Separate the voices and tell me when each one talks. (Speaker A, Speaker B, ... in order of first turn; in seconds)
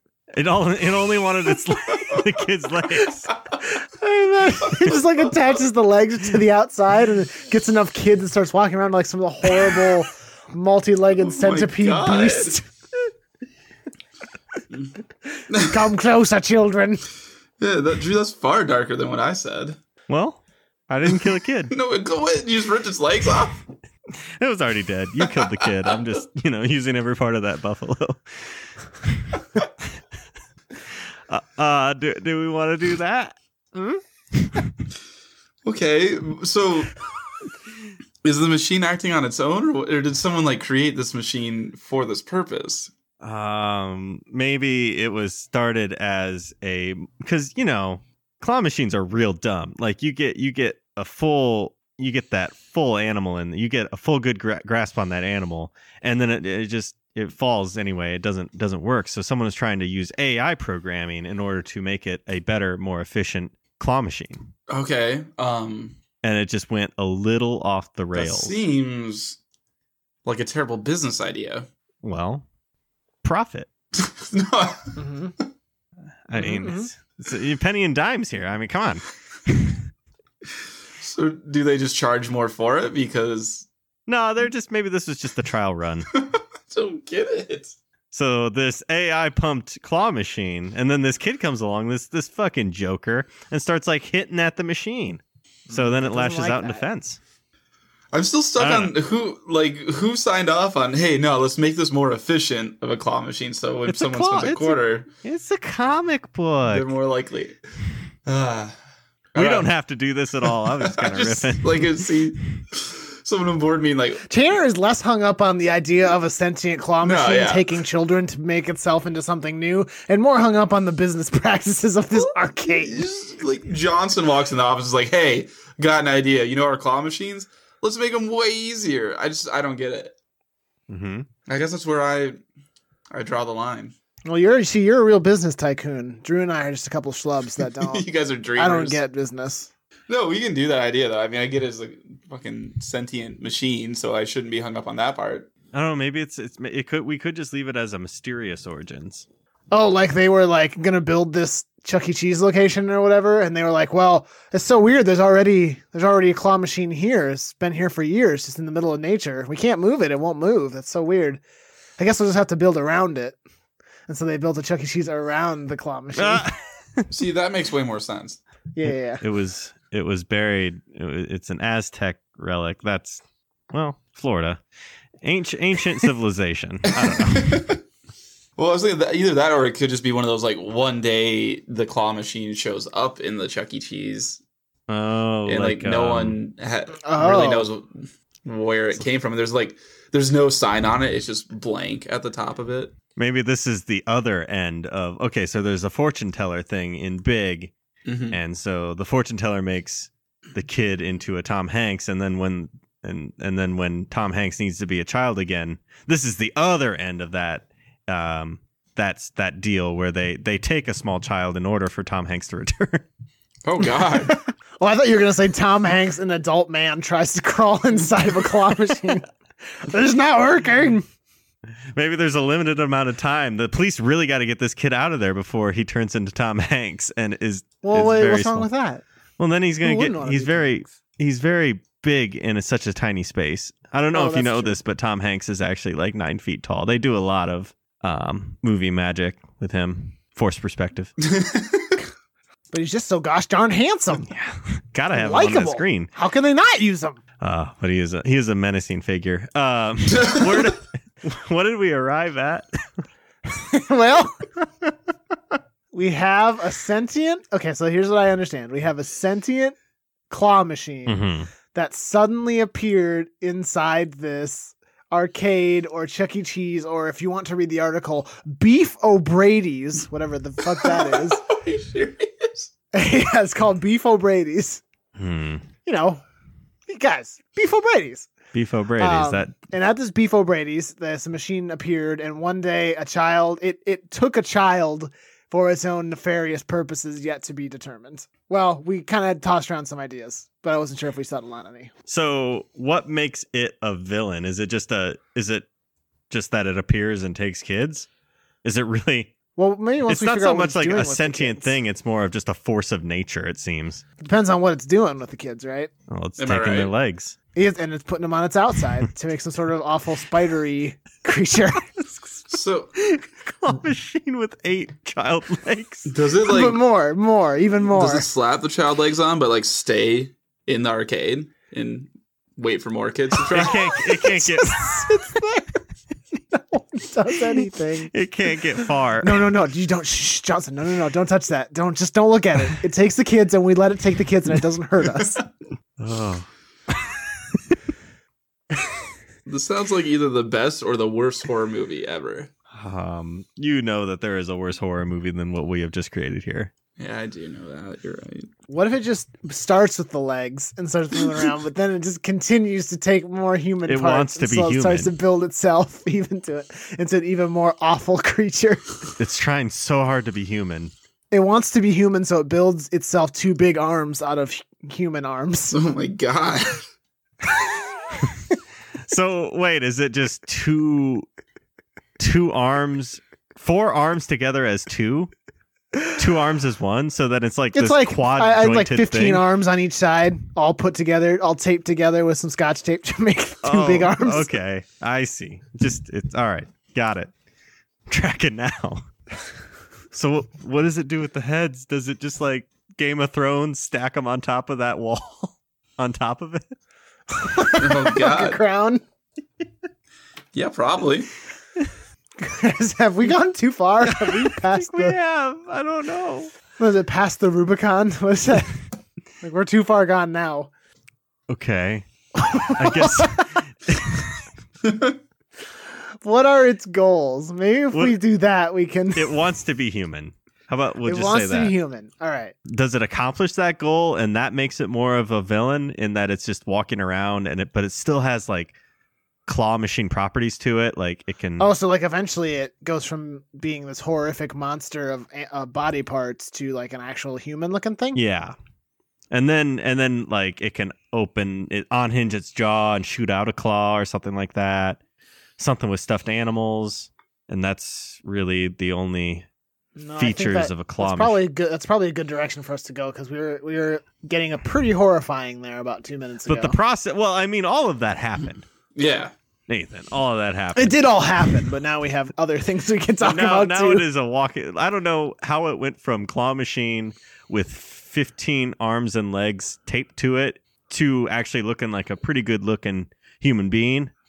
Speaker A: 0.3-3.3, 20.1-21.7, 24.4-29.9, 31.3-34.8, 43.2-64.5, 66.2-68.6, 72.0-72.5, 73.2-73.7, 76.3-79.8, 84.1-86.1, 88.1-97.2, 98.6-98.9, 103.9-106.9, 109.4-112.1, 130.9-131.3, 145.7-149.2, 166.2-167.1, 168.8-174.6, 175.2-177.7, 184.9-186.4, 193.2-197.7, 198.3-213.1, 221.9-228.7, 229.4-241.1, 244.3-246.1, 247.4-253.0, 261.1-261.5, 275.2-275.6, 278.5-279.6, 292.1-295.7, 296.3-298.1, 298.6-299.4, 300.1-304.0, 306.1-307.4, 313.0-316.1, 323.5-325.1, 327.5-329.5, 336.0-337.8, 342.7-346.7, 353.9-355.1, 359.2-360.9, 369.1-371.3, 372.2-375.3, 376.2-379.5, 383.6-387.3, 388.1-389.1, 390.1-396.7, 404.0-406.5, 411.5-412.1, 412.6-414.4, 419.1-421.8, 422.7-428.8, 429.5-431.7, 438.1-438.6, 439.3-445.0, 445.6-449.5, 450.2-451.4, 456.5-458.6, 459.7-461.0, 463.2-474.1
Speaker B: 3.3-3.6, 4.6-5.2, 11.2-12.6, 15.5-15.8, 17.6-19.8, 21.7-23.6, 25.2-25.9, 35.6-36.9, 38.2-42.9, 64.7-66.0, 68.1-69.4, 70.3-71.7, 73.9-75.4, 81.0-83.7, 86.2-87.8, 98.1-105.1, 106.7-107.6, 108.3-108.8, 109.3-109.7, 110.4-114.2, 117.0-117.8, 122.3-130.2, 131.5-132.4, 133.1-133.9, 137.8-139.0, 140.1-145.5, 167.1-168.4, 177.0-177.8, 178.6-184.4, 185.5-192.9, 198.1-198.4, 213.6-214.4, 241.2-242.0, 250.1-250.7, 270.7-272.7, 306.4-306.9, 312.5-312.9, 316.1-316.8, 317.9-323.8, 339.5-342.5, 347.0-348.5, 365.7-366.9, 397.8-398.6, 400.5-401.3, 414.8-415.1, 458.9-459.3
Speaker C: 3.6-12.6, 15.6-17.1, 75.0-75.3, 76.3-76.9, 95.7-96.9, 114.3-123.0, 134.3-138.1, 138.6-139.7, 149.7-161.4, 162.0-163.4, 164.1-166.5, 168.7-169.2, 187.0-187.7, 214.3-221.1, 227.8-229.0, 229.8-230.9, 234.1-234.8, 242.7-244.3, 245.1-247.2, 253.5-254.5, 255.9-259.8, 260.3-271.4, 272.9-274.8, 275.9-276.2, 276.9-278.3, 279.0-291.9, 299.6-301.7, 304.2-305.9, 307.6-312.1, 316.4-318.3, 323.6-325.8, 326.4-328.1, 328.8-335.4, 348.7-359.0, 361.3-365.8, 377.7-384.6, 397.3-399.0, 402.4-405.2, 406.8-408.8, 409.4-410.7, 412.4-413.5, 416.2-419.3, 421.1-422.6, 431.6-438.2, 450.0-456.8, 460.8-464.1